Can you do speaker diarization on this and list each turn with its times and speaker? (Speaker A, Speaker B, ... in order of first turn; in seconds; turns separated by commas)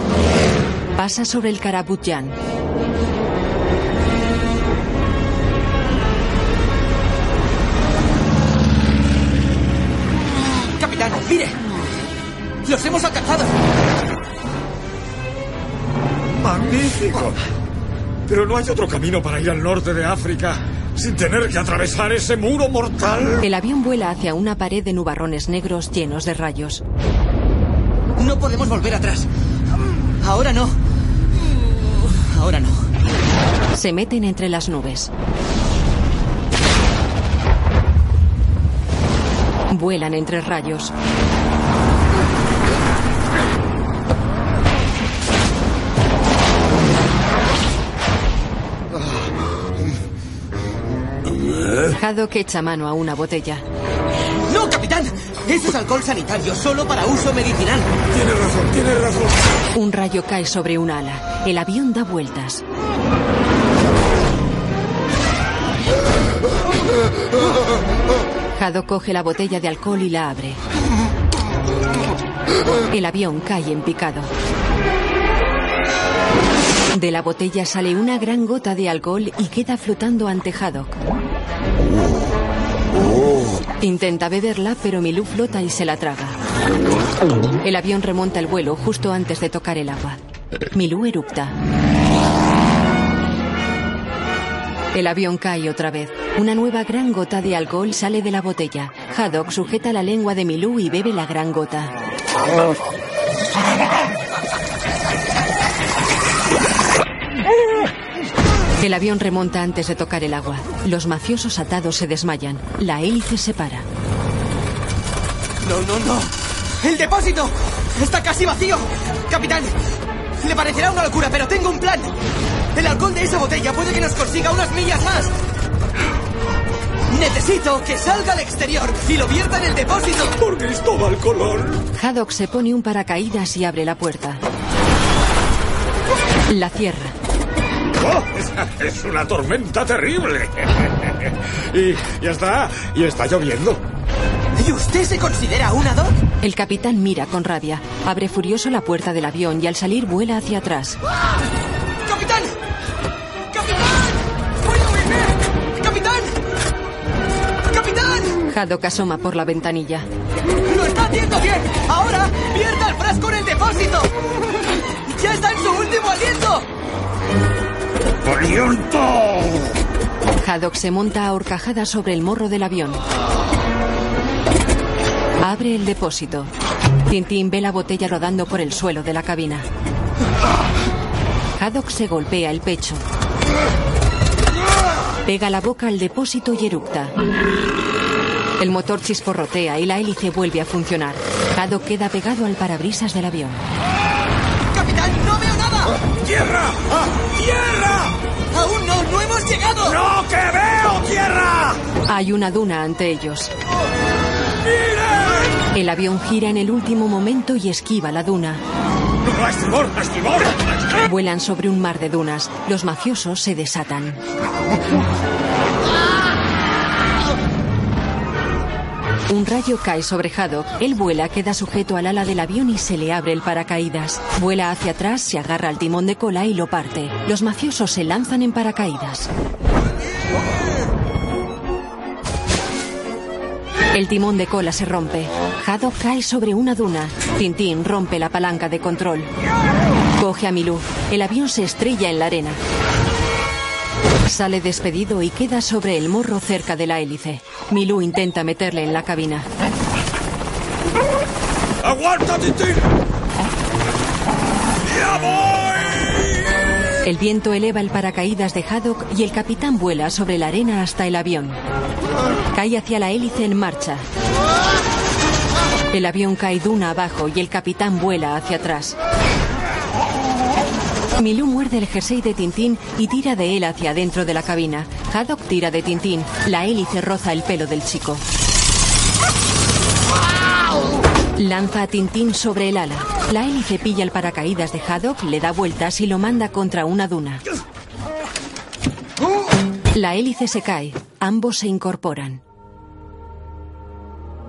Speaker A: 1.0-2.4, Speaker B: 10.8-11.6, Speaker B: 12.6-13.6, Speaker C: 16.3-17.4, Speaker C: 18.3-23.4, Speaker A: 23.4-26.8, Speaker B: 28.2-29.3, Speaker B: 30.2-30.8, Speaker B: 32.1-32.9, Speaker A: 33.7-35.1, Speaker A: 39.7-40.9, Speaker A: 52.0-53.6, Speaker B: 54.5-57.9, Speaker C: 58.1-59.4, Speaker A: 59.7-62.6, Speaker A: 68.6-70.6, Speaker A: 72.9-74.3, Speaker A: 76.9-80.9, Speaker A: 83.8-86.4, Speaker A: 87.6-90.2, Speaker A: 90.7-91.6, Speaker A: 94.9-101.9, Speaker A: 108.8-113.9, Speaker B: 115.6-119.8, Speaker B: 120.4-122.2, Speaker B: 122.8-125.3, Speaker B: 127.1-130.4, Speaker C: 130.4-131.8, Speaker A: 131.9-134.4, Speaker A: 136.5-137.2, Speaker C: 138.0-143.8, Speaker B: 144.6-146.2, Speaker A: 146.4-151.0, Speaker B: 152.1-152.5, Speaker B: 153.5-156.4, Speaker B: 157.7-158.4, Speaker A: 158.5-160.1, Speaker B: 160.7-164.1, Speaker B: 165.1-166.7, Speaker C: 168.3-169.6, Speaker A: 170.4-173.0, Speaker A: 175.4-176.5, Speaker A: 177.1-179.7, Speaker A: 181.6-183.0, Speaker A: 185.2-187.1, Speaker A: 188.6-193.6, Speaker B: 194.7-196.0, Speaker C: 196.1-198.2, Speaker B: 198.5-200.0, Speaker C: 199.8-201.8, Speaker A: 202.1-203.5, Speaker C: 204.7-205.6, Speaker A: 205.7-208.6, Speaker C: 209.2-210.6, Speaker A: 211.1-214.2, Speaker A: 219.3-229.3, Speaker A: 233.9-239.3, Speaker A: 240.2-242.6, Speaker A: 244.3-249.5, Speaker C: 251.8-252.8, Speaker C: 254.8-256.4, Speaker A: 257.0-261.6, Speaker A: 262.5-264.1, Speaker A: 265.9-269.0, Speaker A: 271.2-278.2, Speaker A: 281.4-287.4, Speaker A: 289.9-292.4